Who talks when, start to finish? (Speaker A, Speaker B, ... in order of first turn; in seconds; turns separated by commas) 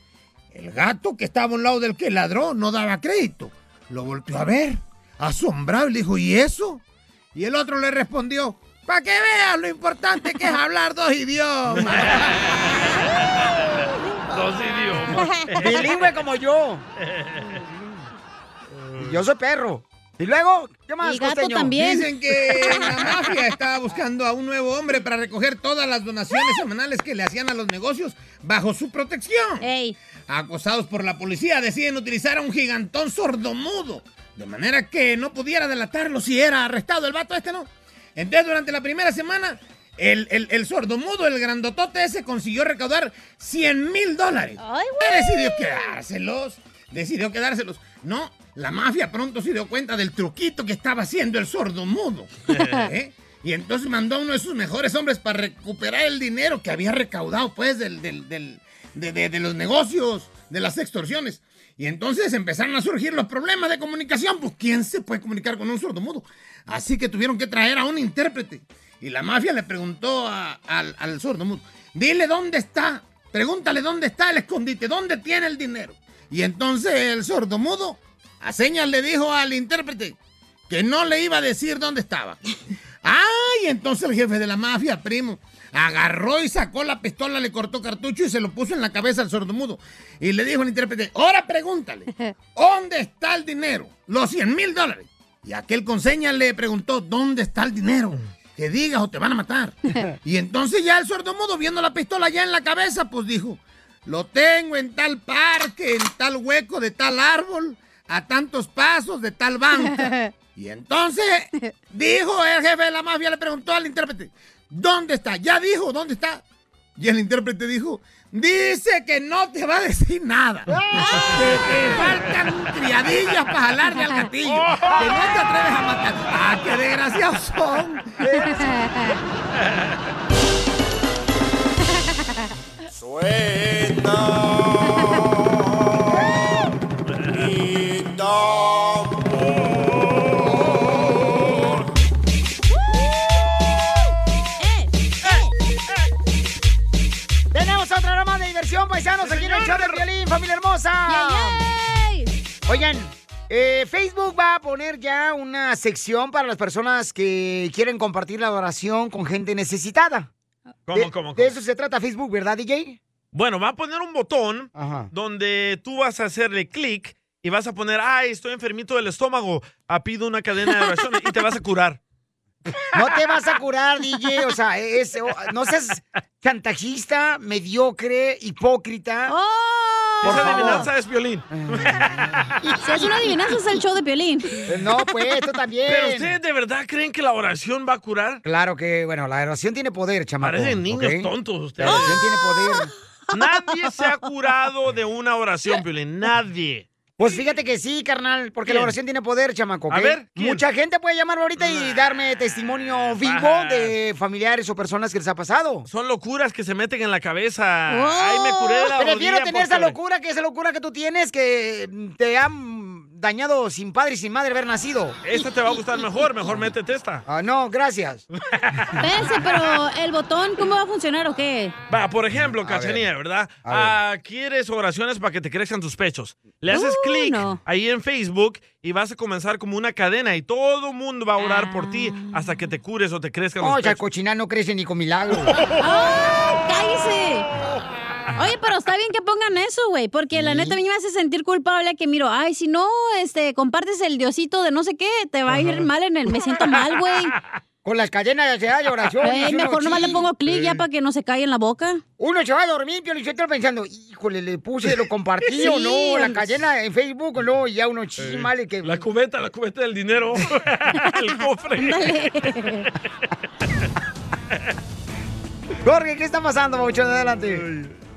Speaker A: 0.5-6.8, Speaker A: 7.3-12.4, Speaker B: 11.8-12.1, Speaker B: 13.6-16.1, Speaker C: 15.6-16.8, Speaker B: 17.1-17.4, Speaker C: 19.0-21.8, Speaker D: 21.0-23.1, Speaker A: 21.7-29.7, Speaker D: 29.6-29.9, Speaker A: 30.3-80.2, Speaker D: 44.6-45.9, Speaker D: 52.5-52.9, Speaker A: 80.7-82.4, Speaker A: 83.0-116.4, Speaker D: 109.8-110.3, Speaker A: 117.0-120.7, Speaker C: 120.7-121.3, Speaker D: 120.9-121.6, Speaker A: 121.3-128.1, Speaker B: 124.5-125.0, Speaker C: 128.2-128.7, Speaker D: 128.4-129.2, Speaker D: 134.9-135.1, Speaker D: 144.6-145.5, Speaker C: 147.5-151.6, Speaker B: 149.2-150.0, Speaker D: 151.1-152.3, Speaker C: 152.7-160.3, Speaker B: 160.9-161.5, Speaker C: 160.9-163.0, Speaker B: 163.3-172.0, Speaker C: 164.7-165.1, Speaker C: 172.9-179.3, Speaker D: 179.3-180.9, Speaker C: 180.2-180.9, Speaker B: 180.2-182.2, Speaker C: 181.5-183.5, Speaker D: 182.8-184.7, Speaker C: 184.7-186.3, Speaker B: 185.8-188.4, Speaker C: 188.4-192.9, Speaker B: 190.4-192.2, Speaker D: 191.8-193.4, Speaker B: 193.3-196.9, Speaker C: 197.2-205.9, Speaker B: 198.7-198.9, Speaker B: 199.9-200.6, Speaker B: 201.6-203.9, Speaker B: 205.9-209.9, Speaker D: 207.9-208.9, Speaker C: 209.0-215.4, Speaker B: 215.2-217.2, Speaker C: 217.3-218.2, Speaker B: 218.6-219.1, Speaker D: 219.0-221.7, Speaker B: 221.9-234.0, Speaker C: 222.6-223.1, Speaker C: 223.6-223.9, Speaker D: 226.7-227.6, Speaker D: 231.4-232.7, Speaker C: 233.6-235.5, Speaker B: 235.4-235.8, Speaker D: 235.8-237.4, Speaker D: 238.3-247.3, Speaker C: 240.3-240.8, Speaker B: 245.5-245.8, Speaker C: 247.8-250.3, Speaker D: 249.2-252.0, Speaker B: 250.5-250.7, Speaker C: 252.2-259.0, Speaker D: 255.5-256.5, Speaker B: 258.2-262.2, Speaker D: 261.8-262.9, Speaker C: 265.8-267.6, Speaker B: 267.5-267.9